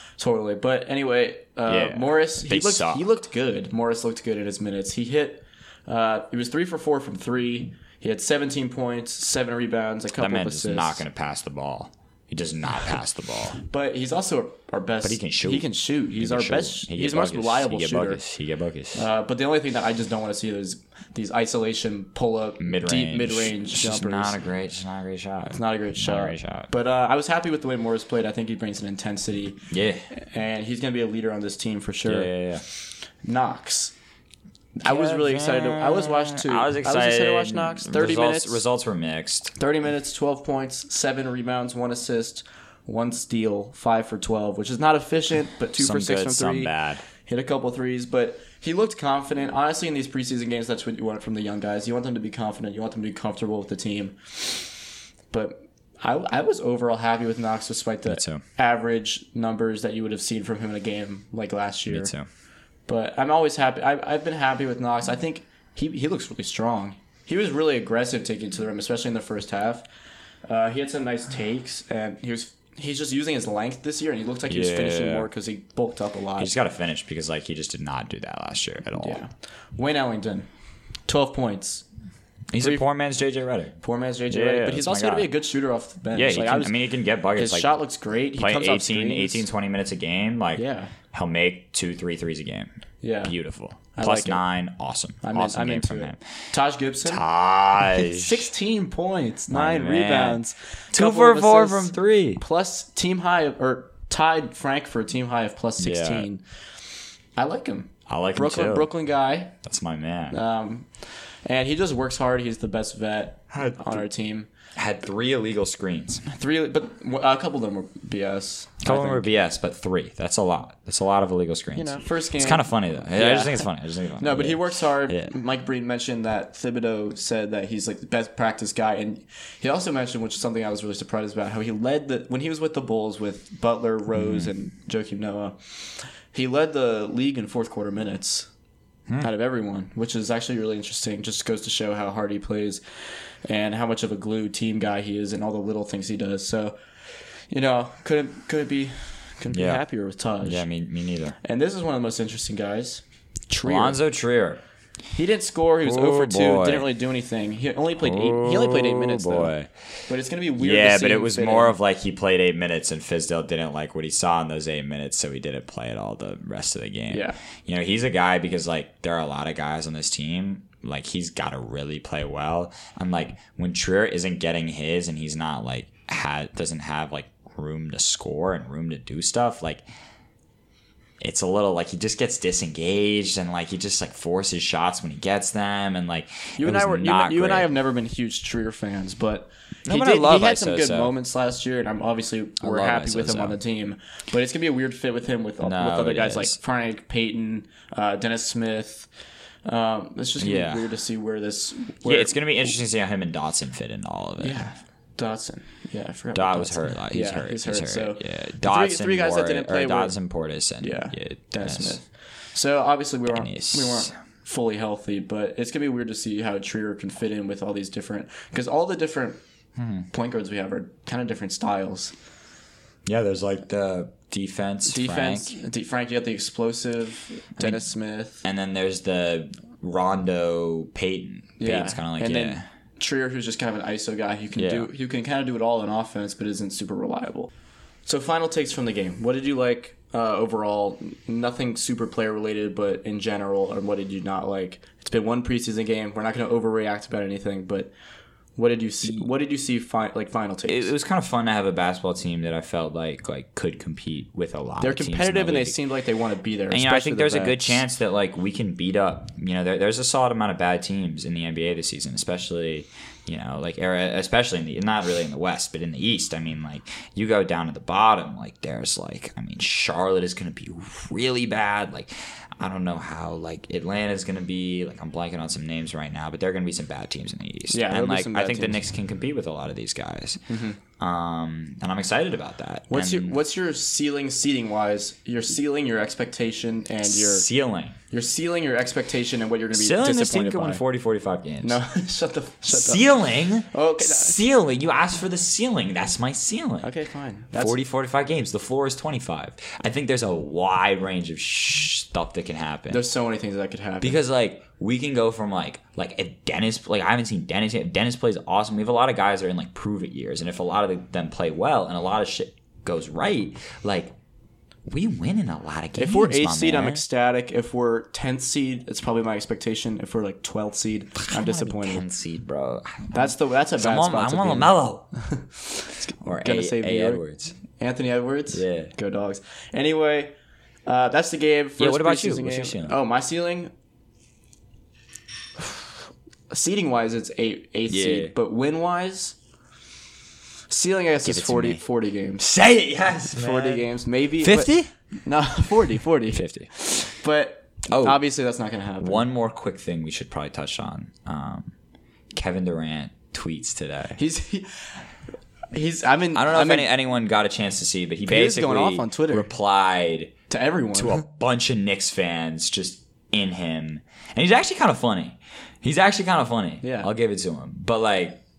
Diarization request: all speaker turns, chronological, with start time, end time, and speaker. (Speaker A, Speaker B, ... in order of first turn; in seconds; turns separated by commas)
Speaker A: 0.2-11.1, Speaker B: 1.7-3.1, Speaker B: 10.2-13.6, Speaker A: 13.6-18.2, Speaker B: 15.0-19.1, Speaker A: 18.9-24.4, Speaker B: 22.6-26.7, Speaker A: 25.4-32.3, Speaker B: 29.7-30.1, Speaker B: 32.0-32.6, Speaker A: 33.2-33.9, Speaker A: 34.8-38.6, Speaker B: 34.9-39.5, Speaker A: 39.6-46.7, Speaker B: 45.8-47.0, Speaker A: 47.2-54.8, Speaker A: 55.3-62.1, Speaker B: 58.1-58.4, Speaker B: 61.9-62.3, Speaker A: 62.9-69.8, Speaker A: 70.5-76.5, Speaker B: 74.5-75.3, Speaker B: 76.4-79.2, Speaker A: 79.0-80.5, Speaker A: 81.1-81.8, Speaker B: 82.5-83.8, Speaker A: 83.8-86.8, Speaker B: 84.3-85.3, Speaker B: 86.1-87.8, Speaker A: 87.3-89.5, Speaker B: 88.4-92.7, Speaker A: 90.6-90.9, Speaker A: 93.0-93.3, Speaker B: 93.2-96.2, Speaker A: 93.9-94.4, Speaker A: 95.2-97.2, Speaker B: 97.0-98.5, Speaker A: 97.8-106.4, Speaker B: 99.5-100.4, Speaker B: 100.9-102.4, Speaker B: 105.8-106.3, Speaker A: 107.4-109.5, Speaker B: 108.1-108.9, Speaker B: 109.6-110.4, Speaker A: 110.3-114.5, Speaker B: 113.5-114.0, Speaker B: 114.8-116.3, Speaker A: 116.3-119.3, Speaker B: 118.8-125.3, Speaker A: 121.8-123.7, Speaker A: 124.2-138.5, Speaker B: 134.1-134.5, Speaker A: 139.2-142.8, Speaker A: 143.4-146.8, Speaker A: 147.5-150.7, Speaker B: 149.5-149.8, Speaker B: 150.4-151.4, Speaker A: 151.4-154.0, Speaker B: 153.6-154.6, Speaker A: 155.2-159.5, Speaker B: 155.8-156.9, Speaker B: 158.0-159.7, Speaker A: 160.1-161.8, Speaker B: 160.6-179.8, Speaker A: 167.1-167.4, Speaker B: 181.2-187.7, Speaker A: 186.6-199.1, Speaker B: 189.9-191.1, Speaker B: 192.6-193.6, Speaker B: 195.6-196.6, Speaker A: 199.7-202.4, Speaker B: 200.4-200.9, Speaker B: 202.0-204.7, Speaker A: 204.4-210.2, Speaker B: 206.3-212.0, Speaker A: 210.8-219.4, Speaker B: 213.3-214.1, Speaker B: 219.8-220.1, Speaker A: 220.1-222.1, Speaker B: 223.1-225.6, Speaker A: 224.9-228.4, Speaker B: 227.6-227.8, Speaker B: 228.4-232.6, Speaker A: 231.6-237.5, Speaker B: 234.6-234.9, Speaker A: 238.1-247.9, Speaker A: 248.6-250.9, Speaker B: 250.7-255.8, Speaker A: 254.8-257.8, Speaker B: 256.7-280.4, Speaker A: 277.7-278.8, Speaker A: 280.5-280.8, Speaker B: 281.0-283.4, Speaker A: 282.9-287.5, Speaker B: 287.0-288.0, Speaker A: 288.1-290.8, Speaker B: 289.7-291.8, Speaker A: 291.6-293.1, Speaker B: 292.7-296.9, Speaker A: 293.6-294.4, Speaker A: 296.8-297.8, Speaker B: 297.5-303.0, Speaker A: 302.9-304.2, Speaker B: 304.0-314.1, Speaker B: 314.9-317.0, Speaker A: 316.0-322.0, Speaker B: 321.3-325.1, Speaker A: 323.1-327.2, Speaker B: 326.2-327.6, Speaker A: 327.8-330.3, Speaker B: 328.5-328.9, Speaker A: 330.9-333.7, Speaker B: 331.8-332.9, Speaker A: 336.5-339.4, Speaker B: 337.9-338.3, Speaker A: 340.7-342.5, Speaker B: 341.2-341.8, Speaker B: 342.4-343.9, Speaker A: 343.3-349.2, Speaker B: 344.4-344.9, Speaker B: 346.3-346.7, Speaker B: 347.9-348.2, Speaker B: 349.0-351.7, Speaker B: 352.4-354.2, Speaker A: 354.2-355.0, Speaker A: 355.7-356.9, Speaker B: 356.4-360.3, Speaker A: 358.3-359.5, Speaker A: 360.5-361.2, Speaker B: 360.9-368.4, Speaker A: 366.8-367.1